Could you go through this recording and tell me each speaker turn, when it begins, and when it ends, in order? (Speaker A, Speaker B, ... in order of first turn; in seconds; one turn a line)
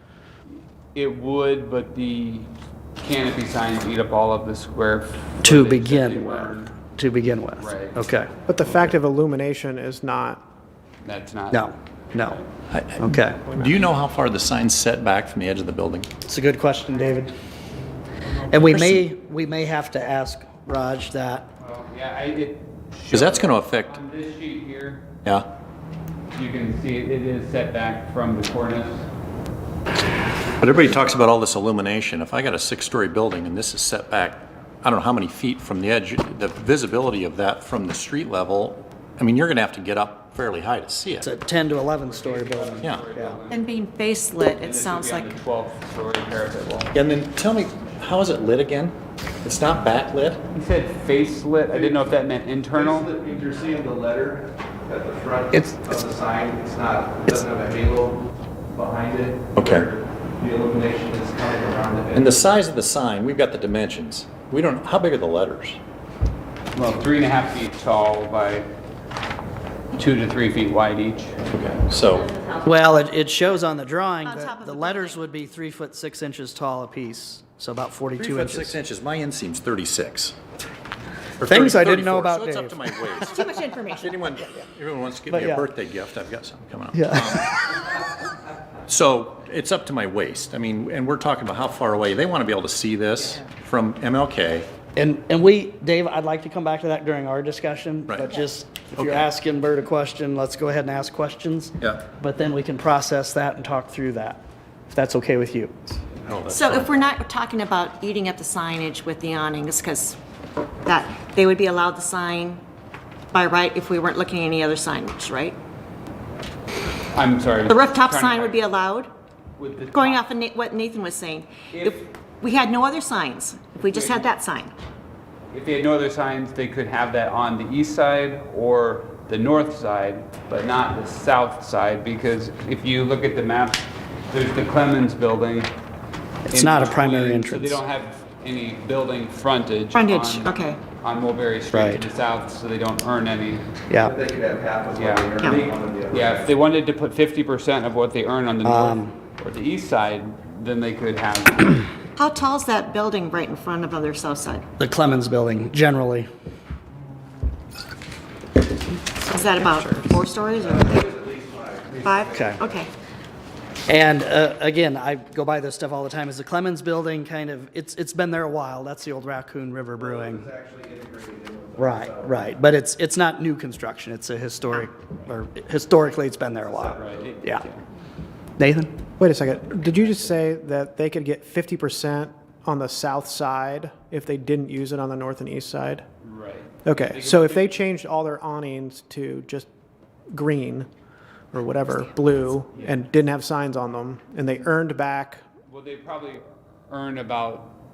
Speaker A: 0.9-6.8
Speaker B: 5.4-8.3
Speaker A: 7.6-8.1
Speaker C: 8.5-10.4
Speaker A: 11.0-12.4
Speaker B: 11.5-12.4
Speaker D: 12.7-16.1
Speaker B: 13.0-13.4
Speaker C: 13.4-13.9
Speaker B: 16.3-17.3
Speaker B: 18.5-21.5
Speaker A: 21.6-25.1
Speaker D: 23.1-24.0
Speaker A: 26.4-29.1
Speaker D: 30.6-41.3
Speaker B: 41.2-43.4
Speaker A: 41.9-43.8
Speaker E: 43.5-45.3
Speaker A: 44.5-46.9
Speaker D: 46.9-50.4
Speaker A: 50.5-53.1
Speaker F: 51.7-52.0
Speaker F: 52.7-62.5
Speaker D: 59.6-59.9
Speaker D: 62.1-65.8
Speaker A: 66.8-68.7
Speaker A: 70.0-71.4
Speaker D: 71.5-72.3
Speaker B: 72.6-78.8
Speaker E: 74.2-75.2
Speaker D: 78.2-80.4
Speaker D: 81.4-87.8
Speaker B: 81.4-82.8
Speaker E: 83.2-84.2
Speaker B: 85.3-85.7
Speaker B: 86.9-87.4
Speaker D: 88.9-94.7
Speaker B: 95.0-105.8
Speaker D: 99.0-99.3
Speaker D: 106.2-107.0
Speaker E: 106.5-110.2
Speaker E: 110.8-112.6
Speaker E: 113.3-115.6
Speaker A: 117.1-118.6
Speaker E: 117.7-119.1
Speaker A: 119.6-120.3
Speaker E: 119.9-124.7
Speaker A: 121.7-122.1
Speaker A: 123.8-124.3
Speaker A: 125.5-135.7
Speaker B: 136.5-137.8
Speaker A: 136.5-143.7
Speaker E: 139.9-140.8
Speaker B: 141.7-142.0
Speaker B: 143.9-144.2
Speaker F: 144.0-146.5
Speaker A: 144.9-151.8
Speaker B: 148.7-149.1
Speaker E: 152.2-154.6
Speaker B: 154.8-156.3
Speaker E: 159.2-161.1
Speaker F: 160.6-162.7
Speaker E: 162.0-162.9
Speaker B: 162.3-162.6
Speaker B: 163.9-170.5
Speaker F: 169.9-172.5
Speaker B: 171.8-177.7
Speaker F: 176.6-177.4
Speaker A: 177.0-177.8
Speaker B: 178.6-178.9
Speaker C: 179.2-186.1
Speaker A: 186.2-187.8
Speaker C: 186.8-189.7
Speaker C: 190.3-190.9
Speaker C: 191.5-195.4
Speaker A: 195.7-197.7